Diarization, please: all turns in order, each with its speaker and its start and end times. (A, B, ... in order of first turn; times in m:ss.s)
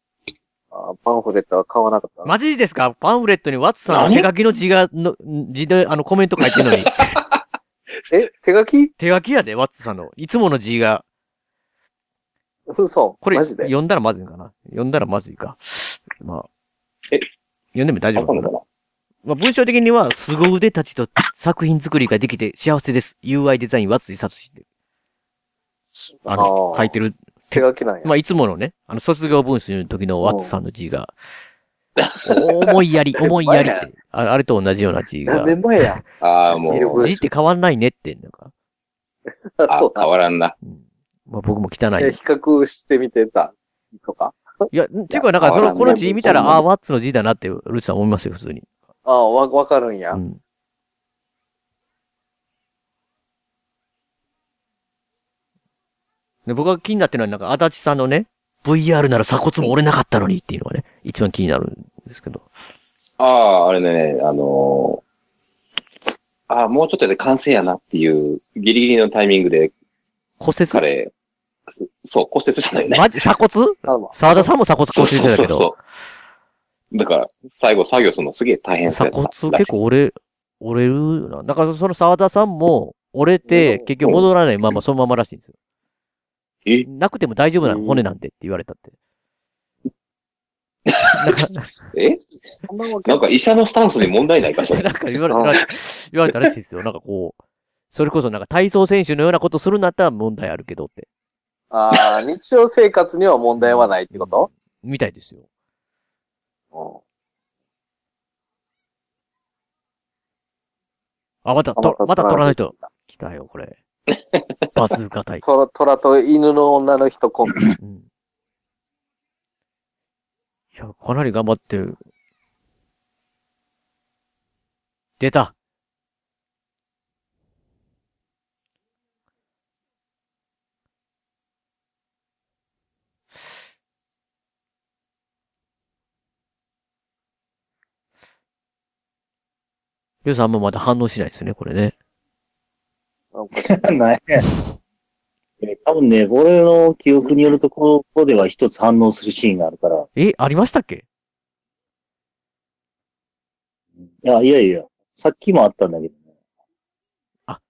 0:00.7-0:02.3 A
0:02.2-0:07.2 B
0:03.9-0:04.3 C
0:08.1-0:08.9 A
0:09.0-0:11.0 B
0:12.7-0:13.7 A
0:13.2-0:16.5 B
0:17.8-0:18.5 B
0:18.2-0:18.6 C
0:19.2-0:24.6 B
0:26.3-0:27.0 A
0:26.3-0:31.1 B
0:27.5-0:28.1 A
0:30.2-0:30.5 A
0:32.2-0:35.6 B
0:33.2-0:33.9 A
0:35.3-0:36.0 A
0:36.2-0:37.1 C
0:36.7-0:37.3 A
0:36.7-0:38.5 B
0:39.6-0:40.1 A
0:39.7-0:40.5 C
0:40.6-0:42.2 B
0:42.0-0:46.6 A
0:44.7-0:48.7 B
0:45.4-0:46.6 C
0:49.1-0:50.2 A
0:50.1-0:50.4 B
0:56.5-1:02.4 B
1:03.2-1:05.0 C
1:06.5-1:09.7 C
1:10.4-1:10.8 B
1:10.7-1:11.1 C
1:11.8-1:13.1 C
1:12.9-1:15.7 B
1:13.9-1:14.5 A
1:14.9-1:15.8 C
1:16.9-1:19.8 C
1:18.9-1:25.5 B
1:23.5-1:23.9 A
1:24.0-1:24.8 C
1:26.8-1:28.9 B
1:27.6-1:28.0 A
1:30.9-1:32.2 C
1:31.1-1:31.7 B
1:32.7-1:33.2 A
1:33.1-1:34.9 C
1:34.7-1:37.4 B
1:35.3-1:35.6 A
1:37.9-1:41.1 B
1:41.7-1:44.5 A
1:43.6-1:45.4 B
1:46.7-1:47.0 A
1:51.4-1:53.8 B
1:51.8-1:52.9 A
1:54.7-1:55.4 B
1:55.4-1:57.7 A
1:57.8-1:58.0 B
2:00.8-2:02.0 B
2:05.2-2:05.5 B
2:20.2-2:22.0 B
2:23.3-2:23.8 A
2:23.5-2:24.5 D
2:25.6-2:30.1 D
2:30.2-2:31.0 B
2:34.2-2:36.2 D